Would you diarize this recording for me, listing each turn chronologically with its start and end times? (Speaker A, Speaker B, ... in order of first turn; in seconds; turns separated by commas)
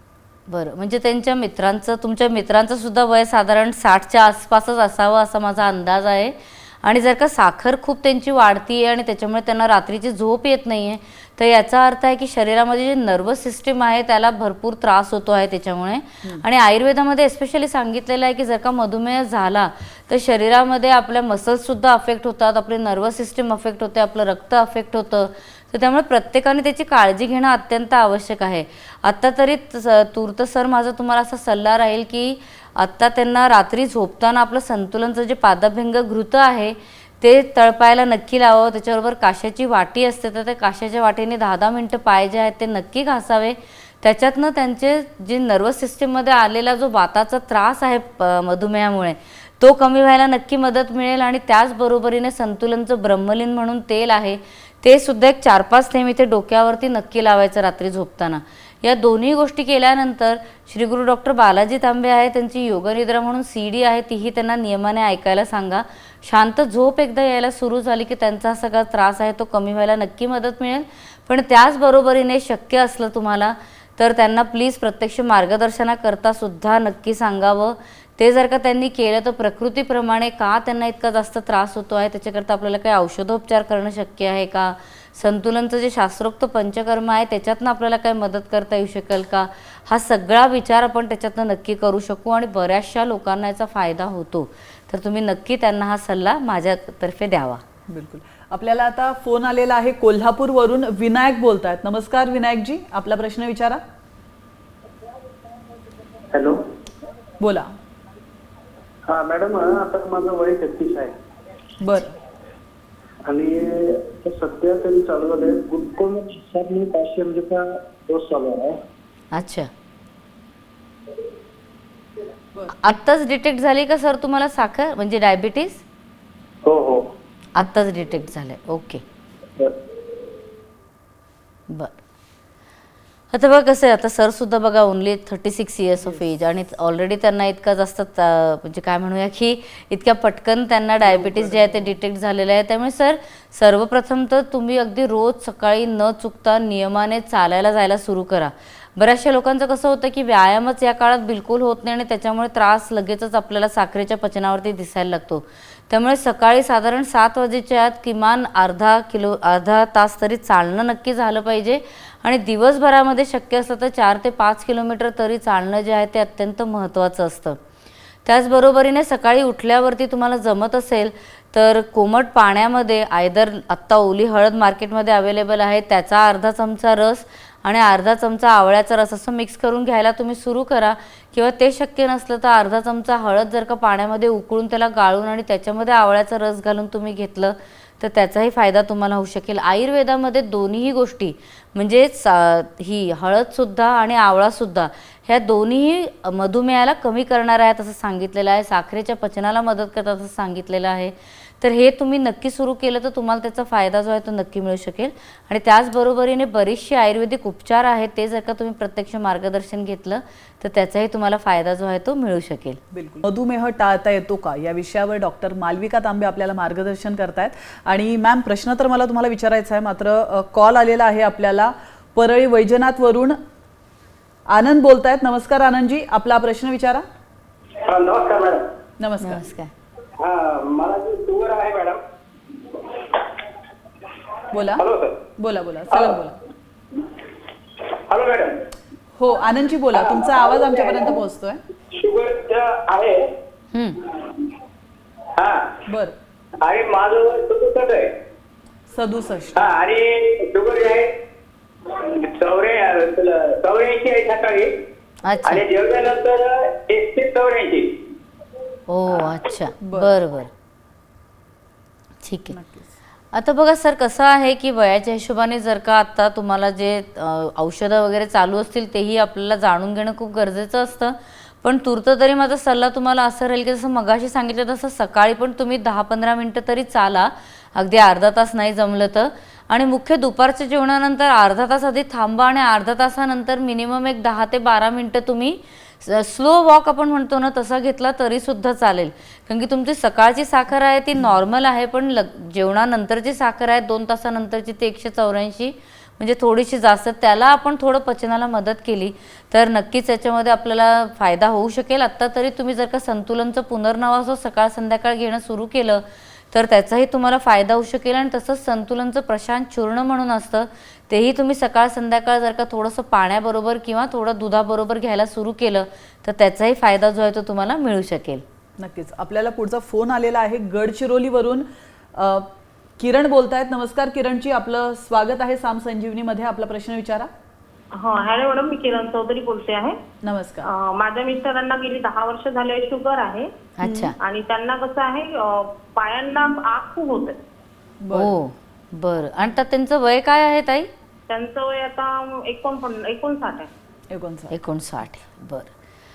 Speaker A: 0.5-97.6, Speaker B: 97.9-103.8, Speaker C: 106.3-106.6, Speaker B: 107.4-107.8, Speaker C: 109.1-111.1, Speaker B: 111.8-112.2, Speaker C: 113.2-118.8, Speaker A: 119.3-119.7, Speaker A: 122.7-125.8, Speaker C: 126.7-127.1, Speaker A: 127.6-129.0, Speaker A: 131.7-132.0, Speaker A: 133.3-167.6, Speaker B: 136.0-136.2, Speaker B: 141.0-142.0, Speaker A: 168.3-212.8, Speaker B: 212.9-223.4, Speaker B: 224.5-227.0, Speaker C: 227.8-228.7, Speaker B: 229.0-229.5, Speaker A: 229.2-229.7, Speaker C: 230.2-232.0, Speaker B: 234.5-234.8, Speaker C: 234.7-235.2, Speaker B: 235.4-236.4, Speaker C: 235.9-236.2, Speaker C: 238.1-238.6, Speaker B: 239.2-241.6, Speaker C: 240.0-241.2, Speaker C: 241.9-243.3, Speaker A: 243.7-244.0, Speaker C: 245.4-245.8, Speaker B: 245.9-246.2, Speaker C: 246.6-248.1, Speaker B: 248.9-249.7, Speaker C: 249.6-251.1, Speaker C: 251.9-254.8, Speaker A: 255.2-255.7, Speaker C: 255.5-258.0, Speaker A: 258.9-260.5, Speaker B: 259.8-260.1, Speaker A: 262.2-262.6, Speaker B: 262.5-262.9, Speaker A: 263.3-318.4, Speaker B: 318.8-327.3, Speaker D: 328.0-330.0, Speaker B: 330.2-330.7, Speaker D: 330.6-333.5, Speaker A: 333.8-334.1, Speaker B: 333.8-334.1, Speaker D: 334.2-337.4, Speaker B: 338.0-338.4, Speaker A: 338.1-340.9, Speaker D: 341.3-343.7, Speaker B: 344.1-344.6, Speaker A: 344.5-345.7